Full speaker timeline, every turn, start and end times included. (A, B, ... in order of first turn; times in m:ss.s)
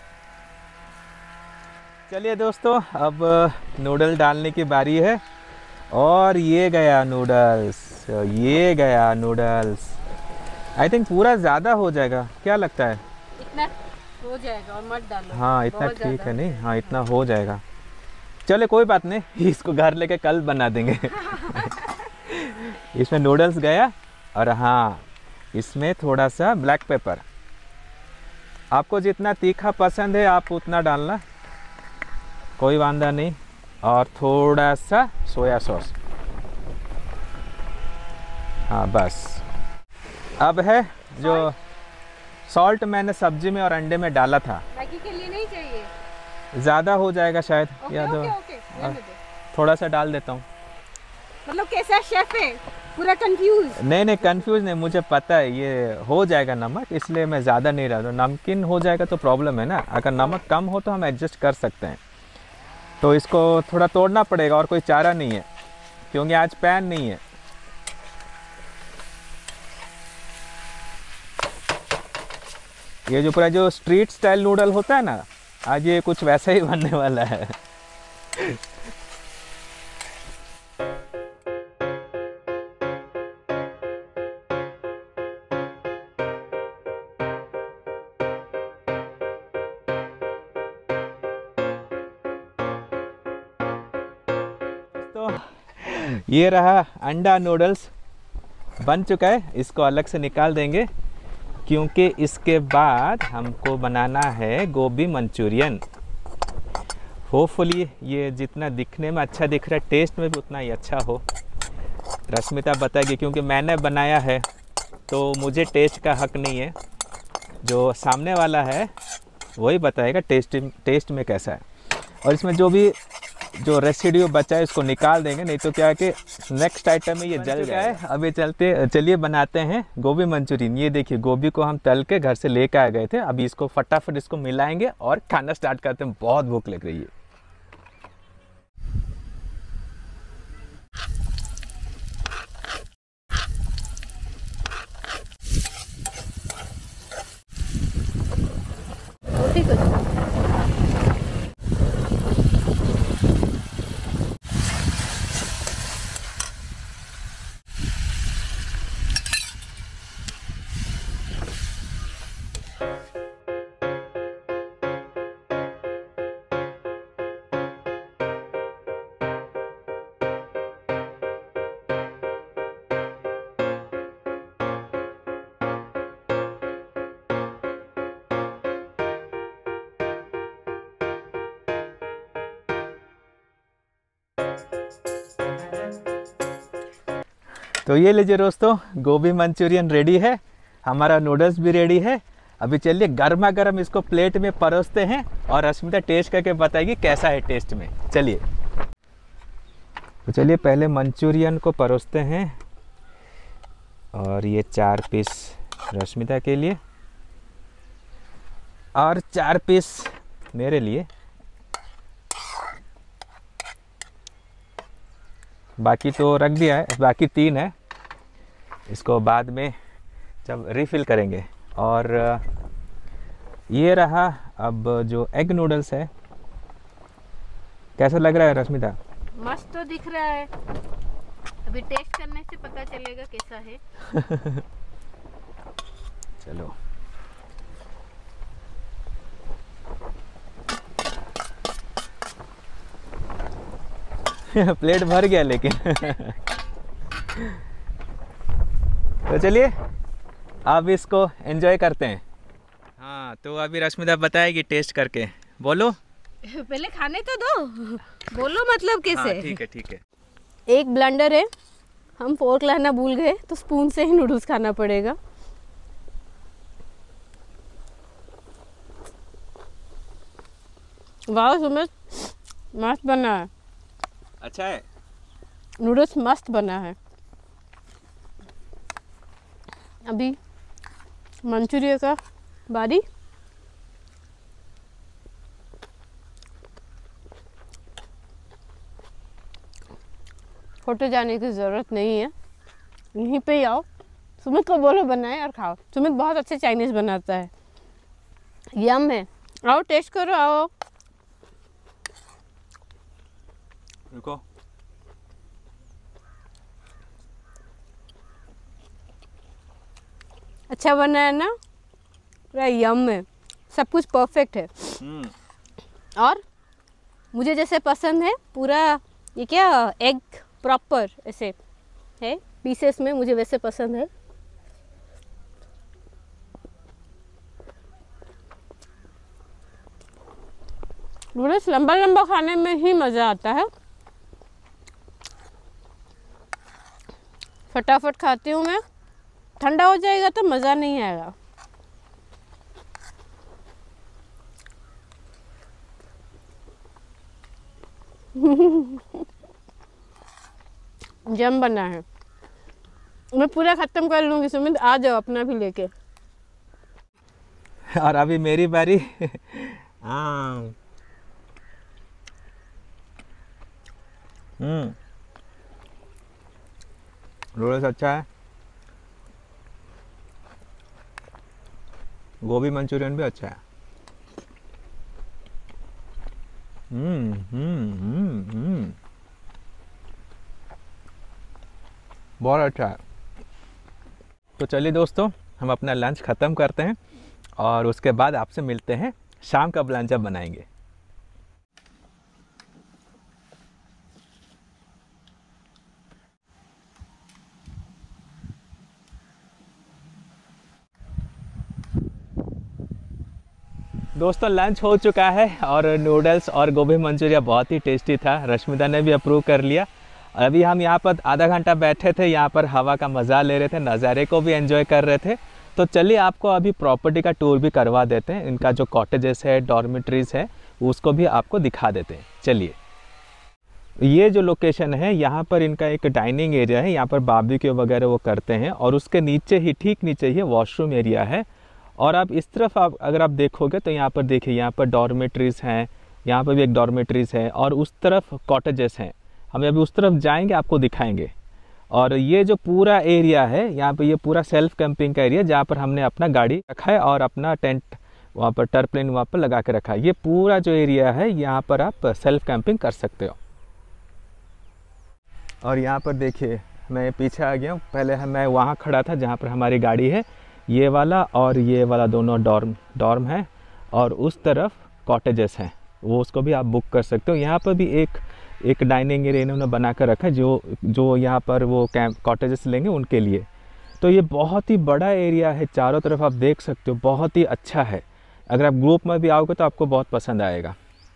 0:02.1-0:05.2 A
0:05.9-0:10.0 A
0:10.8-0:13.0 A
0:13.4-0:16.4 B
0:15.3-0:17.6 A
0:18.5-0:27.2 A
0:21.2-0:22.1 B
0:28.7-0:31.2 A
0:32.6-0:36.0 A
0:38.7-0:39.4 A
0:40.4-0:41.6 A
0:41.2-0:41.5 B
0:42.5-0:44.6 A
0:44.7-0:45.9 B
0:46.5-0:49.0 A
0:47.8-0:49.2 B
0:49.5-0:50.5 A
0:51.5-0:53.8 B
0:53.8-1:02.0 A
1:03.0-1:05.5 A
1:06.1-1:07.2 A
1:13.1-1:17.6 A
1:18.3-1:18.6 A
1:35.0-1:37.9 A
1:38.8-1:40.9 A
1:41.7-1:45.8 A
1:47.3-1:51.2 A
1:52.3-1:54.4 A
1:55.1-1:56.8 A
1:57.6-1:58.9 A
1:59.6-2:01.6 A
2:02.2-2:03.0 A
2:03.6-2:17.1 A
2:29.3-2:30.2 B
3:07.8-3:18.4 A
3:20.3-3:22.6 A
3:24.1-3:26.8 A
3:29.0-3:31.1 A
3:35.8-3:37.7 A
3:38.9-3:39.7 A
3:40.4-3:42.4 A
3:43.7-3:46.1 A
3:48.0-3:49.0 A
3:49.4-3:50.5 B
3:51.6-3:53.8 B
3:54.1-3:54.6 A
3:56.4-3:56.8 A
4:04.5-4:06.4 A
4:07.4-4:07.6 A
4:09.3-4:09.7 A
4:10.7-4:12.2 A
4:13.0-4:16.0 A
4:16.4-4:19.6 B
4:19.1-4:20.0 A
4:20.7-4:21.5 B
4:22.2-4:25.2 B
4:31.3-4:33.5 B
4:34.4-4:34.8 A
4:35.8-4:37.0 B
4:40.0-4:40.4 B
4:41.4-4:43.0 B
4:50.8-4:52.3 B
4:53.1-4:53.9 B
4:54.4-4:57.5 B
4:58.7-5:00.7 B
5:04.1-5:04.4 A
5:10.7-5:11.6 B
5:12.5-5:15.0 B
5:15.0-5:15.3 A
5:16.2-5:16.4 B
5:17.3-5:21.6 B
5:22.2-5:24.1 B
5:31.4-5:33.7 B
5:37.7-5:38.8 B
5:39.6-5:41.4 B
5:48.4-5:49.3 B
5:51.3-5:52.0 B
5:53.3-5:55.9 B
5:58.0-6:00.8 A
6:04.6-6:05.0 A
6:07.6-6:08.3 A
6:12.4-6:13.6 A
6:16.9-6:19.0 A
6:22.4-6:23.0 A
6:24.6-6:27.0 A
6:27.6-6:30.7 A
6:44.2-7:02.8 A
7:04.0-7:11.5 A
7:12.0-7:21.3 A
7:21.9-7:33.4 A
7:35.6-7:53.5 A
7:54.0-8:00.8 A